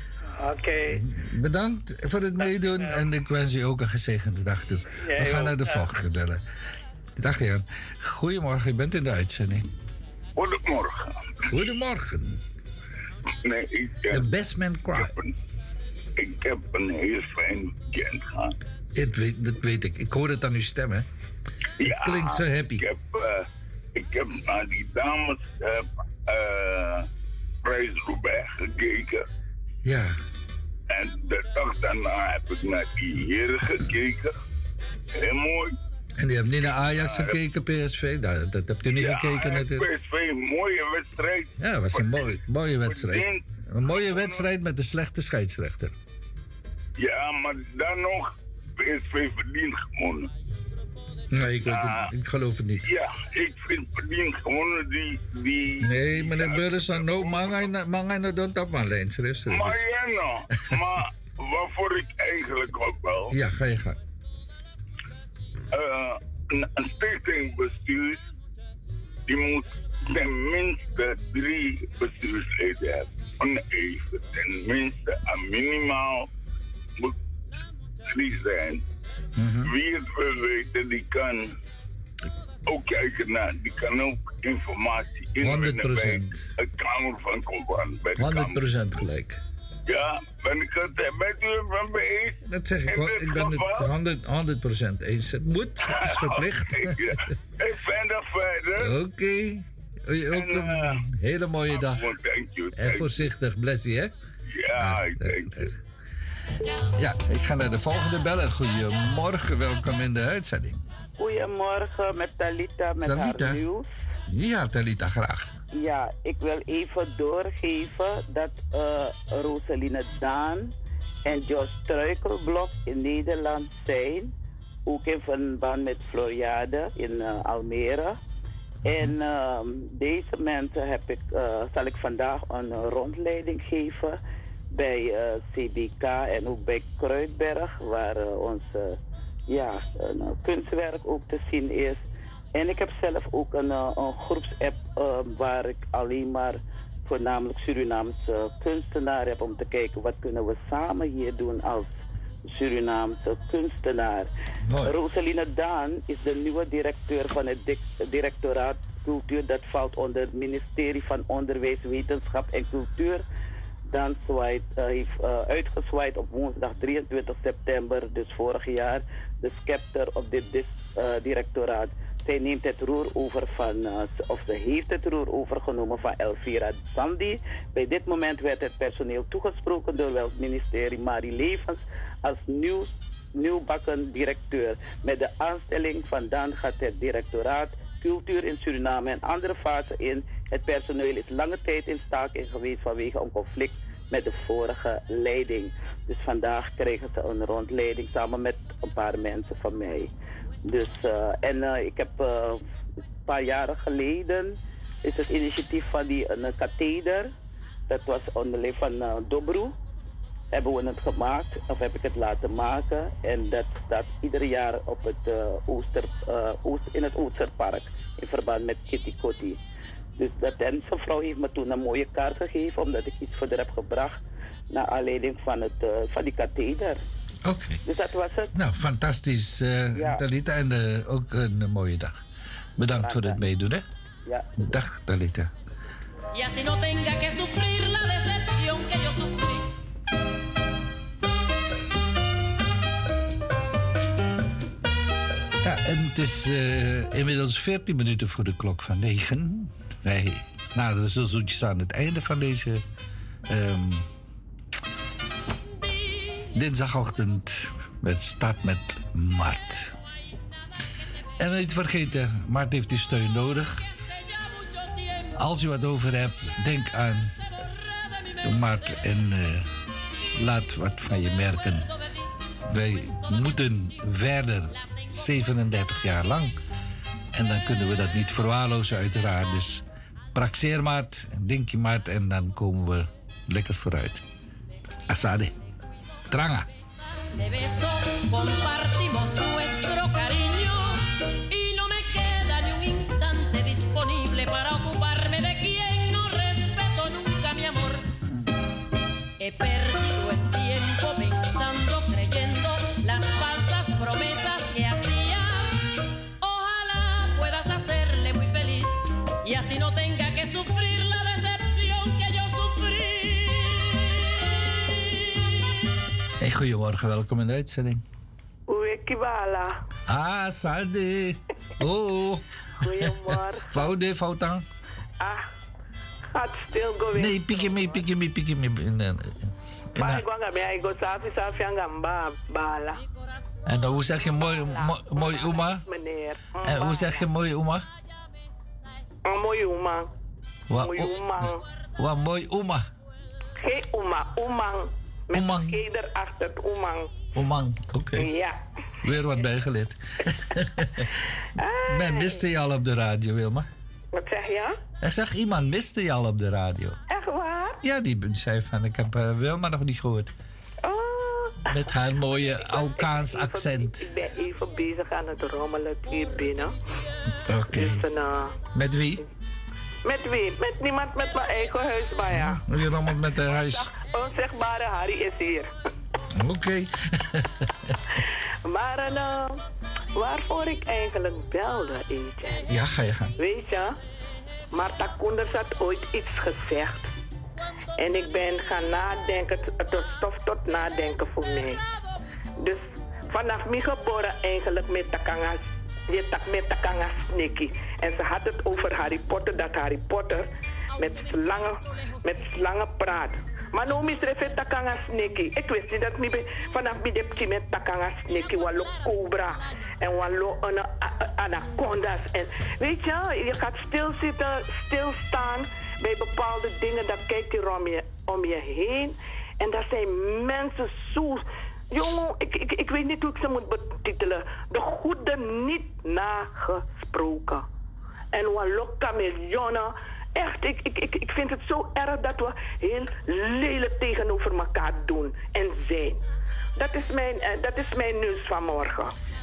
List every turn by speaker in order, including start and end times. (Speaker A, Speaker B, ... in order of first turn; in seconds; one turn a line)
Speaker A: 0.4-1.0
Speaker B: 0.9-6.4
Speaker A: 2.4-2.9
Speaker A: 5.1-5.9
Speaker B: 7.2-9.7
Speaker C: 10.4-11.3
Speaker B: 11.5-12.4
Speaker C: 13.4-14.3
Speaker B: 14.1-15.1
Speaker C: 14.9-15.3
Speaker C: 16.2-18.5
Speaker B: 18.9-21.1
Speaker C: 21.8-27.1
Speaker B: 21.9-22.8
Speaker C: 27.6-29.2
Speaker B: 29.9-30.2
Speaker C: 30.9-34.3
Speaker C: 35.1-35.8
Speaker B: 36.2-39.9
Speaker C: 37.0-37.3
Speaker C: 38.9-44.5
Speaker B: 41.6-45.9
Speaker C: 47.0-50.3
Speaker B: 51.3-52.9
Speaker C: 51.6-52.1
Speaker C: 52.9-57.6
Speaker B: 55.8-59.8
Speaker C: 59.5-63.3
Speaker B: 63.3-64.0
Speaker C: 65.7-68.2
Speaker C: 69.3-76.3
Speaker C: 78.1-78.8
Speaker B: 79.4-79.7
Speaker C: 79.7-81.5
Speaker C: 82.7-88.6
Speaker B: 85.4-86.4
Speaker B: 88.2-89.4
Speaker C: 89.9-92.4
Speaker B: 92.5-97.0
Speaker C: 92.9-93.9
Speaker C: 95.9-98.9
Speaker B: 98.8-102.1
Speaker C: 100.3-101.0
Speaker C: 101.7-103.2
Speaker B: 102.8-104.1
Speaker C: 104.6-105.7
Speaker B: 104.8-105.7
Speaker B: 107.0-110.8
Speaker D: 111.2-113.8
Speaker B: 113.1-113.6
Speaker B: 114.3-115.5
Speaker D: 115.7-120.7
Speaker D: 121.2-124.3
Speaker D: 124.9-128.2
Speaker D: 128.8-134.2
Speaker D: 134.7-142.0
Speaker D: 142.5-151.9
Speaker D: 152.5-154.3
Speaker B: 154.7-154.9
Speaker D: 154.8-163.2
Speaker D: 163.9-200.1
Speaker D: 200.7-202.6
Speaker D: 203.3-207.3
Speaker D: 207.9-209.8
Speaker D: 210.5-219.6
Speaker D: 220.2-227.0
Speaker B: 227.4-227.8
Speaker D: 227.9-228.5
Speaker B: 228.5-232.2
Speaker D: 229.9-230.2
Speaker B: 232.8-233.8
Speaker D: 232.9-233.4
Speaker B: 234.6-235.5
Speaker E: 236.3-239.7
Speaker B: 245.6-252.8
Speaker B: 253.5-254.1
Speaker B: 256.6-259.9
Speaker B: 261.4-263.9
Speaker E: 264.2-265.3
Speaker B: 265.4-267.4
Speaker B: 268.4-269.7
Speaker B: 270.4-271.9
Speaker B: 272.7-276.6
Speaker B: 277.3-284.2
Speaker B: 285.1-285.6
Speaker B: 286.3-286.7
Speaker E: 287.4-298.0
Speaker E: 299.4-305.8
Speaker E: 306.4-315.5
Speaker B: 316.4-318.0
Speaker F: 318.7-319.8
Speaker B: 320.1-324.6
Speaker F: 322.8-323.9
Speaker F: 325.2-325.5
Speaker F: 326.3-328.0
Speaker B: 327.1-330.2
Speaker F: 330.0-333.0
Speaker B: 333.7-335.8
Speaker F: 334.6-337.2
Speaker B: 336.6-337.9
Speaker F: 339.3-340.1
Speaker B: 340.7-342.9
Speaker F: 340.8-341.6
Speaker F: 343.6-347.1
Speaker B: 345.3-345.8
Speaker B: 347.4-348.3
Speaker F: 348.2-348.6
Speaker B: 349.0-351.1
Speaker F: 351.6-352.4
Speaker B: 351.9-353.7
Speaker F: 354.1-354.8
Speaker B: 355.0-357.0
Speaker F: 357.1-357.8
Speaker B: 357.8-360.3
Speaker F: 360.8-361.6
Speaker B: 361.7-364.1
Speaker F: 362.6-366.7
Speaker B: 367.5-368.0
Speaker F: 367.7-368.6
Speaker B: 368.8-369.2
Speaker F: 370.1-372.6
Speaker B: 372.3-373.9
Speaker F: 373.1-375.7
Speaker B: 376.4-377.6
Speaker F: 378.6-379.6
Speaker F: 380.1-382.7
Speaker B: 382.7-383.3
Speaker F: 383.4-383.9
Speaker F: 384.7-387.1
Speaker F: 388.0-391.8
Speaker F: 392.6-427.7
Speaker F: 428.3-436.2
Speaker F: 436.8-439.1